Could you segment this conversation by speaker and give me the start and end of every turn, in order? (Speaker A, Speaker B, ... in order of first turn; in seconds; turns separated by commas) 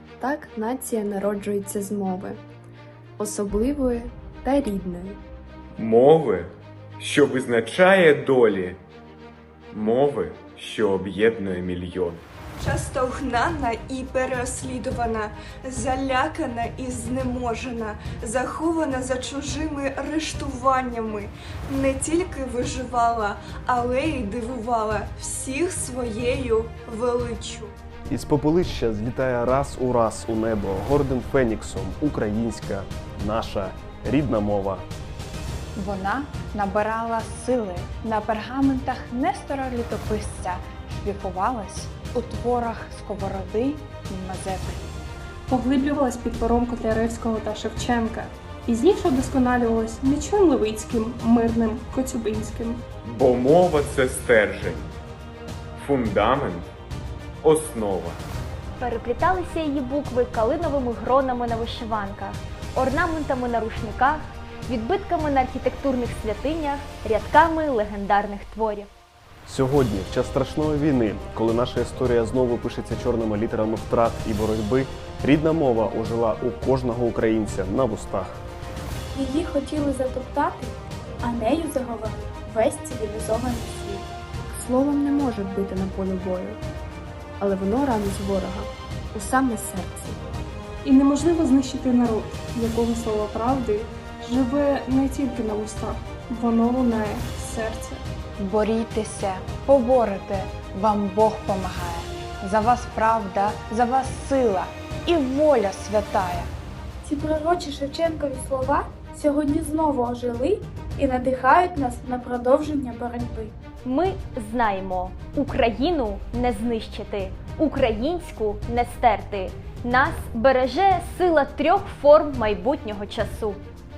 Speaker A: 0.2-2.4, Speaker A: 3.2-5.2, Speaker B: 5.8-8.8, Speaker B: 9.7-12.2, Speaker C: 12.6-27.7, Speaker D: 28.1-34.9, Speaker E: 35.8-44.9, Speaker F: 45.5-52.8, Speaker B: 53.0-54.9, Speaker B: 55.8-56.7, Speaker B: 57.4-58.2, Speaker G: 58.8-68.9, Speaker D: 69.5-78.4, Speaker H: 79.1-84.1, Speaker A: 84.5-86.6, Speaker A: 87.4-90.2, Speaker F: 90.8-98.0, Speaker E: 98.4-106.5, Speaker H: 107.0-113.5, Speaker G: 113.8-123.6